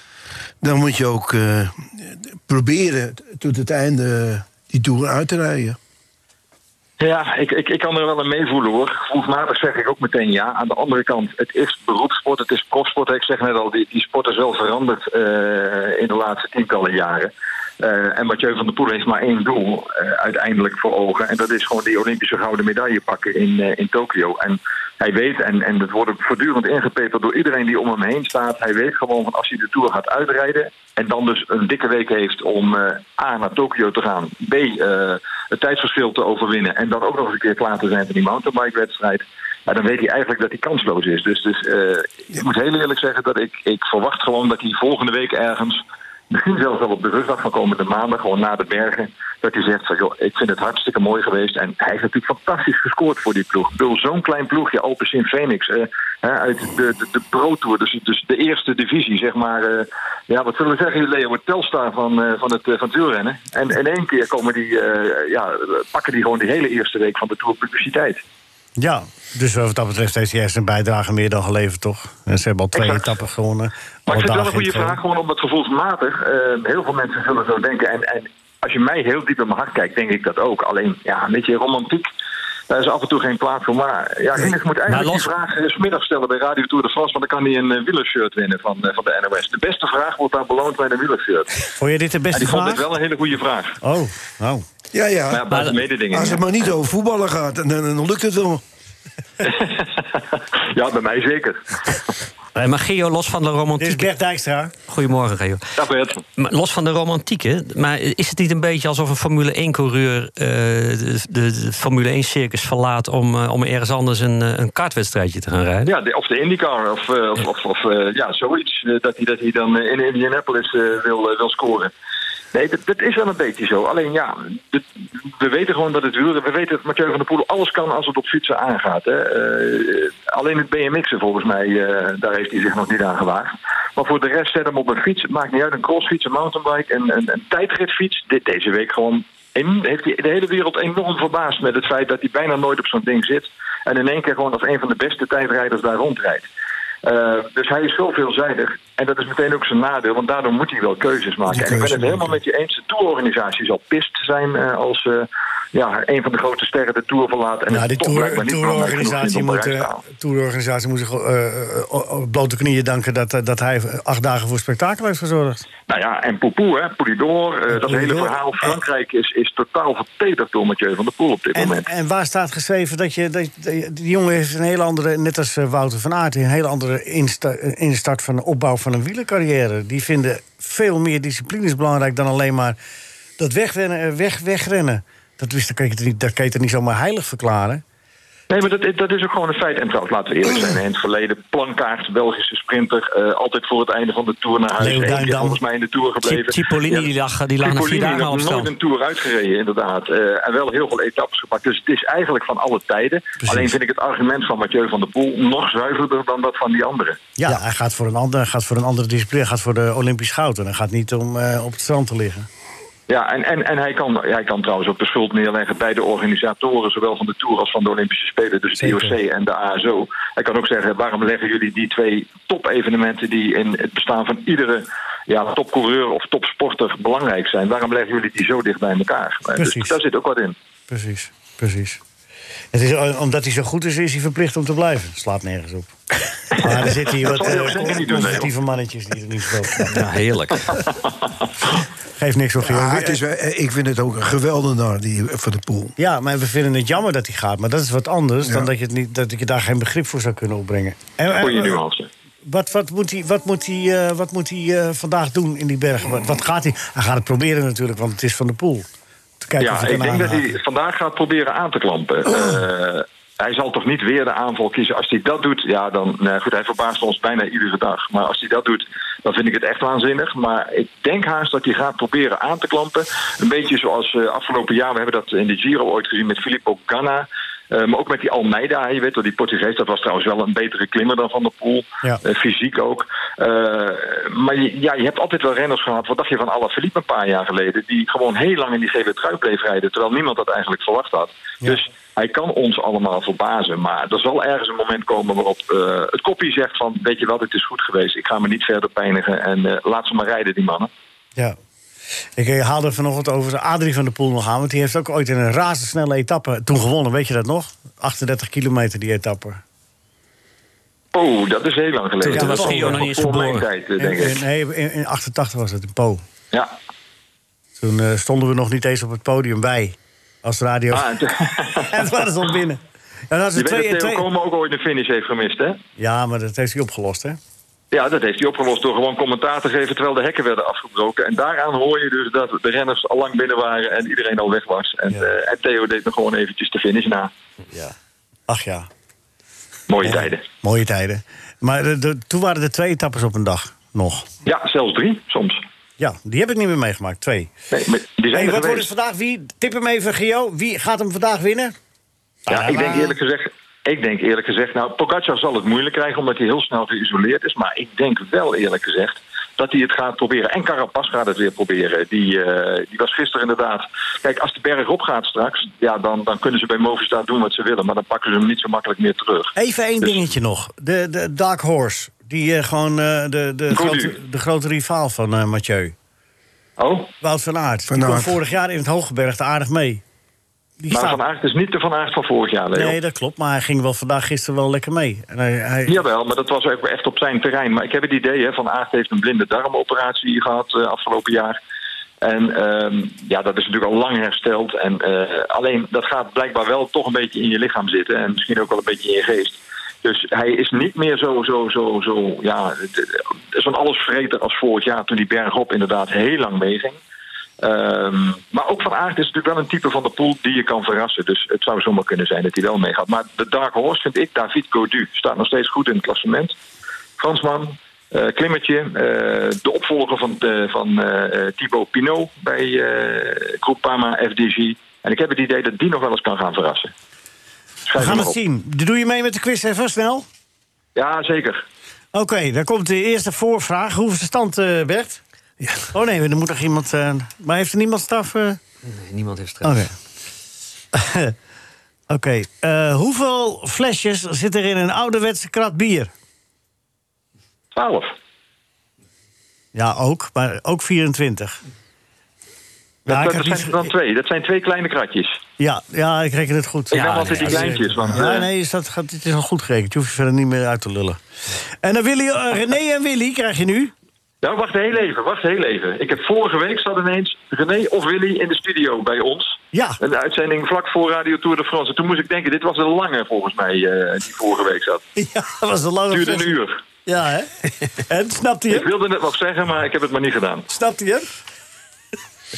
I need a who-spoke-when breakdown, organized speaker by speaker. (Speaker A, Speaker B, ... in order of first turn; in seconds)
Speaker A: 0.6-5.8, 94.9-95.5, 96.1-98.6, 151.5-152.3, 242.6-245.9, 377.9-378.4, 435.6-435.9
Speaker B: 7.0-68.2, 72.8-73.2, 74.1-82.1, 82.7-91.5, 92.3-93.8, 95.3-96.4, 99.4-102.0, 105.8-106.2, 115.8-121.9, 122.5-146.5, 147.0-160.0, 165.9-171.9, 188.5-197.1, 197.6-207.2, 213.1-230.6, 236.6-238.5, 240.7-241.4, 251.4-252.1, 259.6-300.9, 311.1-314.4, 320.9-322.0, 323.6-325.8, 327.9-337.3, 339.9-340.4, 344.4-345.6, 347.7-348.9, 352.5-369.5, 373.7-374.1, 376.8-377.1, 380.9-383.0, 385.9-391.6, 392.2-407.0, 407.6-416.6, 417.2-426.9, 427.9-428.4, 430.9-431.6, 447.7-448.1, 453.1-455.4, 456.9-458.5, 464.4-475.0, 476.1-476.8, 478.7-480.7
Speaker C: 68.8-75.0, 91.8-92.9, 93.8-94.7, 103.8-104.7, 157.7-165.7, 167.7-168.8, 171.6-182.8, 183.4-187.8, 194.8-195.6, 203.4-203.8, 207.4-212.5, 218.8-219.2, 229.6-230.0, 230.9-232.0, 232.7-240.0, 242.2-243.2, 246.0-251.8, 252.4-258.9, 259.4-260.6, 302.4-309.6, 312.3-313.1, 314.0-316.2, 317.8-321.2, 321.9-324.3, 326.0-327.4, 337.7-338.0, 338.5-338.9, 340.0-344.3, 346.0-347.5, 348.3-351.8, 352.5-353.2, 369.6-375.9, 377.2-380.0, 380.8-381.2, 382.7-386.0, 428.0-430.3, 432.1-435.2, 435.9-438.6, 439.6-439.9, 440.9-441.4, 442.1-446.1, 449.7-451.6, 453.1-453.9, 455.6-461.2, 461.8-463.9, 469.7-470.0, 475.2-478.9, 480.7-481.3
Speaker D: 84.9-85.3, 95.5-95.8, 102.5-104.1, 104.9-105.6, 106.4-115.9, 196.2-198.7, 239.9-240.9, 312.2-313.7, 438.9-439.9, 457.1-457.8